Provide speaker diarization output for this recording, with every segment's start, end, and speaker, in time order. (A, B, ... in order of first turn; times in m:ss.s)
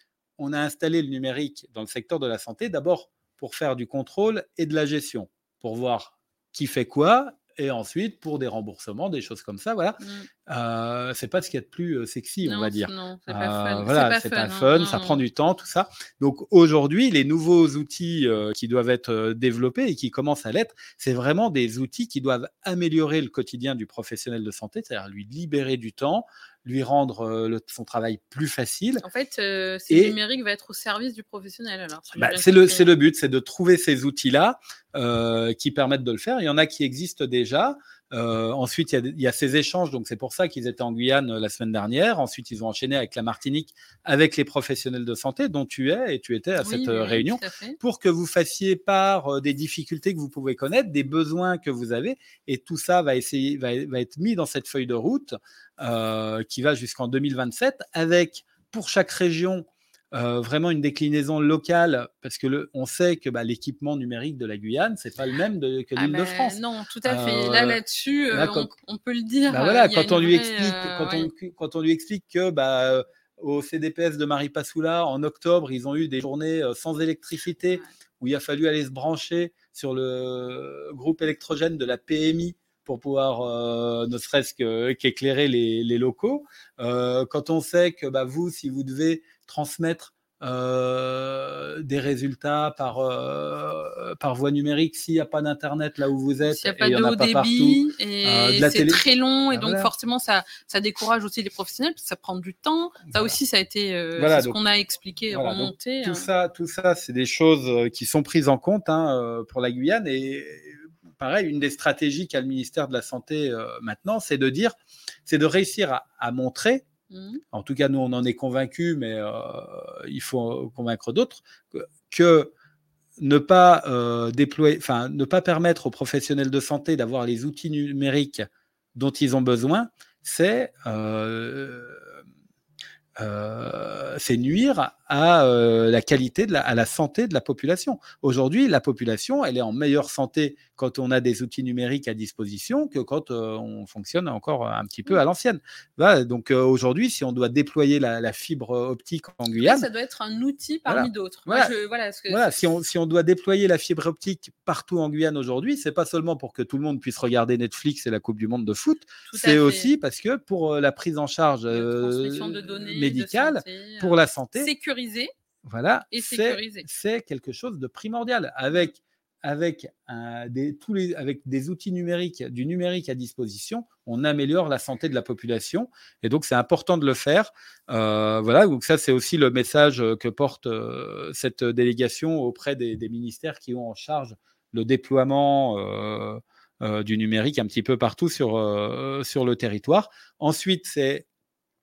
0:00.4-0:29.0 A
0:10.0-0:10.3 B
0:12.4-0:15.2 B
0:29.0-0:32.9 B
0:29.9-0:30.2 A
0:32.2-1:07.8 A
0:46.6-0:47.8 B
1:06.0-1:11.3 B
1:08.3-1:08.7 A
1:09.5-1:39.0 A
1:36.4-1:46.3 B
1:39.5-1:39.9 A
1:43.1-1:43.4 A
1:44.2-1:44.6 A
1:45.3-1:56.8 A
1:57.1-1:57.4 B
1:57.5-2:02.5 A
2:03.2-2:12.1 A
2:13.2-2:29.9 A
2:29.5-2:32.6 B
2:30.9-2:31.7 A
2:32.3-2:44.7 A
2:39.3-2:39.9 B
2:41.7-2:45.3 B
2:45.6-3:11.2 A
2:46.1-2:46.9 B